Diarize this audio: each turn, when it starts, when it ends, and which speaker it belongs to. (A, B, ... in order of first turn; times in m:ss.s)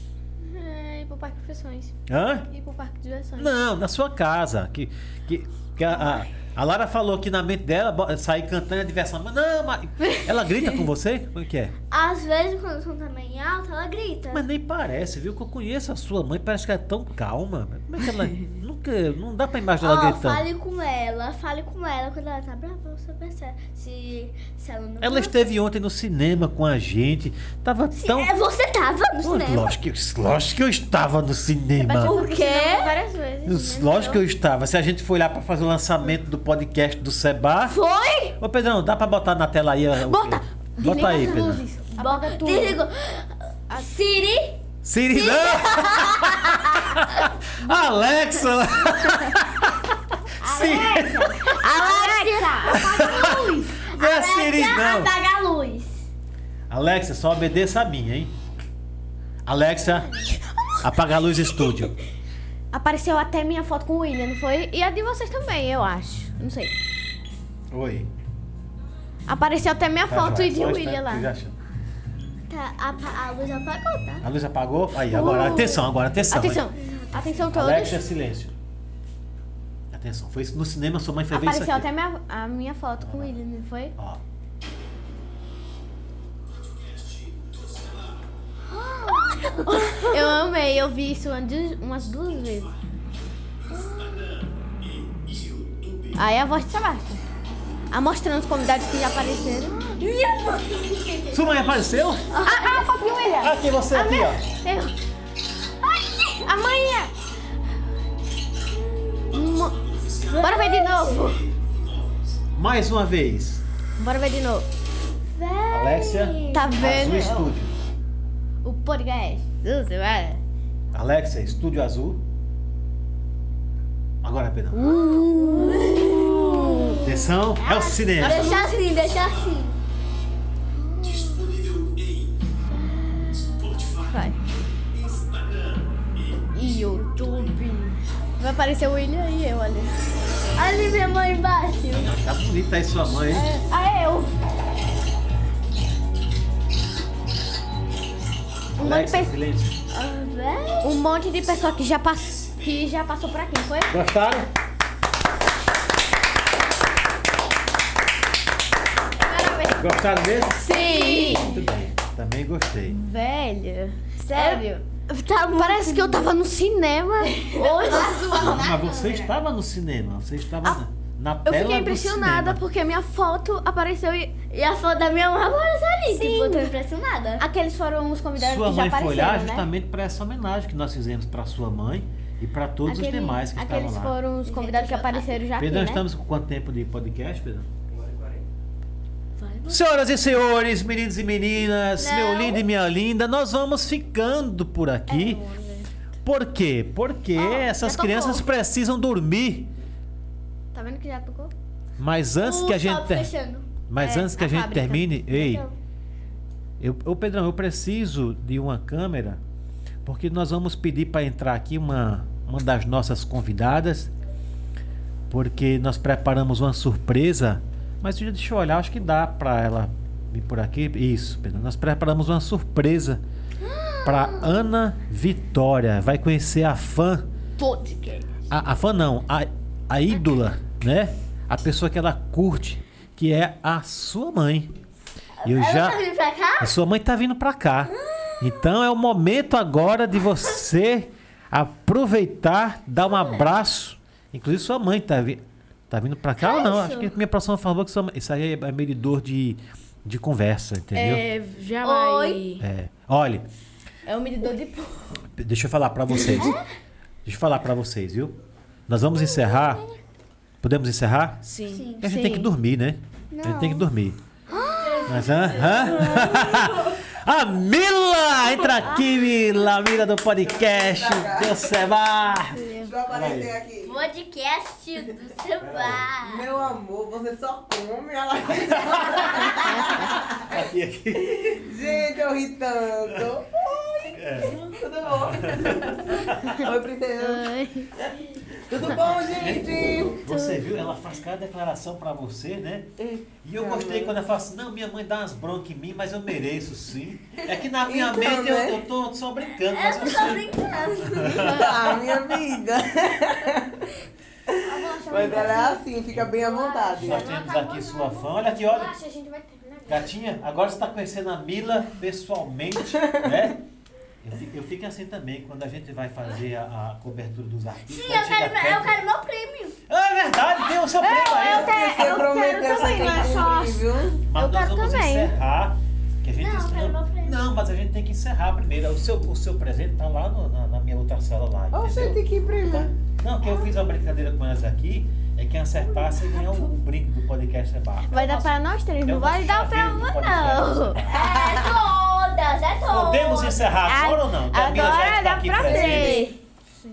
0:00.4-0:02.0 A
0:02.1-0:02.5 B
0:02.5-0:03.5 A
0:03.4-0:11.7 B
0:05.9-0:06.2 A
0:11.9-0:14.4 C
0:14.3-0:20.4 B
0:19.8-0:25.5 C
0:25.0-0:28.3 B
0:27.9-0:29.7 C
0:29.2-0:32.2 B
0:31.8-0:32.9 C
0:31.9-0:34.2 A
0:33.4-0:37.8 B
0:37.6-0:38.4 C
0:38.4-0:41.6 B
0:40.0-0:42.8 A
0:42.0-0:44.6 C
0:44.8-0:51.5 B
0:45.1-0:47.2 C
0:50.4-0:56.1 C
0:51.5-0:53.7 A
0:52.7-0:55.1 B
0:56.7-0:58.3 B
0:59.4-1:00.1 B
1:00.8-1:01.9 B
1:02.7-1:06.7 A
1:07.7-1:08.1 B
1:09.3-1:11.3 A
1:10.1-1:11.5 B
1:12.5-1:14.3 C
1:14.2-1:16.7 B
1:15.1-1:18.0 A
1:16.8-1:17.1 C
1:17.5-1:18.5 B
1:19.9-1:21.9 B
1:21.3-1:23.9 A
1:23.0-1:23.3 B
1:28.7-1:30.3 C
1:29.6-1:32.7 A
1:35.7-1:36.0 B
1:36.1-1:37.2 A
1:37.9-1:39.8 A
1:39.7-1:41.5 C
1:41.3-1:42.3 B
1:42.3-1:44.9 A
1:42.4-1:43.5 D
1:43.4-1:44.4 B
1:46.0-1:46.4 C
1:46.4-1:47.1 A
1:49.2-1:51.5 A
1:50.2-1:51.2 C
1:52.5-1:53.6 B
1:54.0-1:54.6 A
1:55.4-1:56.7 C
1:55.7-1:57.7 B
1:56.5-1:57.6 A
1:58.6-2:00.4 A
2:00.9-2:02.2 B
2:04.2-2:04.8 B
2:04.7-2:07.0 A
2:04.8-2:09.8 C
2:07.0-2:08.6 B
2:08.2-2:08.8 A
2:14.0-2:14.4 A
2:16.5-2:17.6 A
2:17.1-2:18.0 D
2:18.4-2:19.9 A
2:20.5-2:22.1 C
2:21.9-2:23.5 B
2:23.3-2:24.3 A
2:28.8-2:29.7 B
2:28.8-2:29.3 A
2:29.9-2:31.0 C
2:30.8-2:34.0 A
2:33.9-2:34.5 B
2:39.2-2:39.9 C
2:39.8-2:40.7 B
2:40.5-2:41.6 A
2:40.7-2:41.6 D
2:41.3-2:43.0 B
2:42.9-2:44.8 A
2:44.3-2:46.2 C
2:45.6-2:48.6 A
2:47.5-2:49.0 C
2:47.6-2:49.0 D
2:48.3-2:52.6 B
2:51.4-2:54.3 A
2:54.5-2:57.4 C
2:56.0-2:56.7 A
2:57.4-2:59.7 A
2:58.4-3:04.2 B
3:02.8-3:06.0 A
3:04.4-3:05.4 C
3:05.6-3:07.7 B
3:09.4-3:09.8 C
3:09.7-3:15.4 B
3:12.0-3:12.6 C
3:15.2-3:15.6 A
3:16.2-3:19.7 B
3:17.4-3:18.4 A
3:20.7-3:21.5 A
3:22.0-3:23.3 B
3:22.4-3:23.7 C
3:23.9-3:25.6 B
3:24.0-3:25.1 A
3:25.3-3:25.8 C
3:26.8-3:29.4 B
3:30.0-3:34.1 B
3:35.3-3:43.2 B
3:43.6-3:44.5 C
3:44.0-3:47.3 B
3:47.6-3:47.9 A
3:48.5-3:54.7 B
3:55.4-3:56.8 C
3:55.4-3:56.0 B
3:56.6-4:11.2 B
3:57.9-3:58.6 C
4:06.4-4:07.1 C
4:10.9-4:12.6 D
4:11.8-4:12.4 C
4:12.6-4:13.4 B
4:14.1-4:15.2 D
4:15.4-4:16.5 B
4:16.2-4:16.6 C
4:17.2-4:18.3 B
4:18.9-4:19.8 B
4:19.2-4:19.8 C
4:20.6-4:21.5 B
4:21.4-4:21.9 D
4:21.7-4:22.0 C
4:22.0-4:22.5 A
4:22.0-4:24.2 B
4:23.3-4:23.8 C
4:24.5-4:26.4 C
4:25.0-4:33.5 B
4:28.6-4:28.8 C
4:30.4-4:31.6 E
4:32.8-4:33.9 E
4:33.8-4:36.4 C
4:35.6-4:36.0 B
4:36.2-4:40.6 E
4:38.7-4:41.6 B
4:39.6-4:40.1 A
4:41.3-4:50.2 E
4:44.1-4:46.6 B
4:47.2-4:47.8 C
4:47.5-4:47.9 A
4:48.7-5:01.9 B
4:50.0-4:50.6 C
4:53.0-4:54.1 E
4:57.8-4:58.8 E
4:59.7-5:01.6 C
5:01.4-5:03.9 E
5:01.4-5:02.0 A
5:04.5-5:07.3 E
5:04.6-5:05.8 A
5:05.1-5:06.3 B
5:06.4-5:10.1 A
5:07.0-5:09.0 B
5:09.9-5:13.6 B
5:12.9-5:13.3 E
5:14.2-5:19.0 B
5:17.8-5:19.8 C
5:19.9-5:21.9 B
5:20.9-5:25.3 A
5:21.4-5:24.2 E
5:22.1-5:23.4 C
5:24.3-5:32.2 B
5:26.4-5:27.4 C
5:31.7-5:32.9 E
5:33.2-5:41.3 B
5:38.1-5:41.0 A
5:41.1-5:43.7 C
5:41.2-5:41.8 E
5:42.8-5:46.2 B
5:43.8-5:46.3 A
5:45.6-5:46.2 E
5:45.9-5:46.3 C
5:45.9-5:46.2 D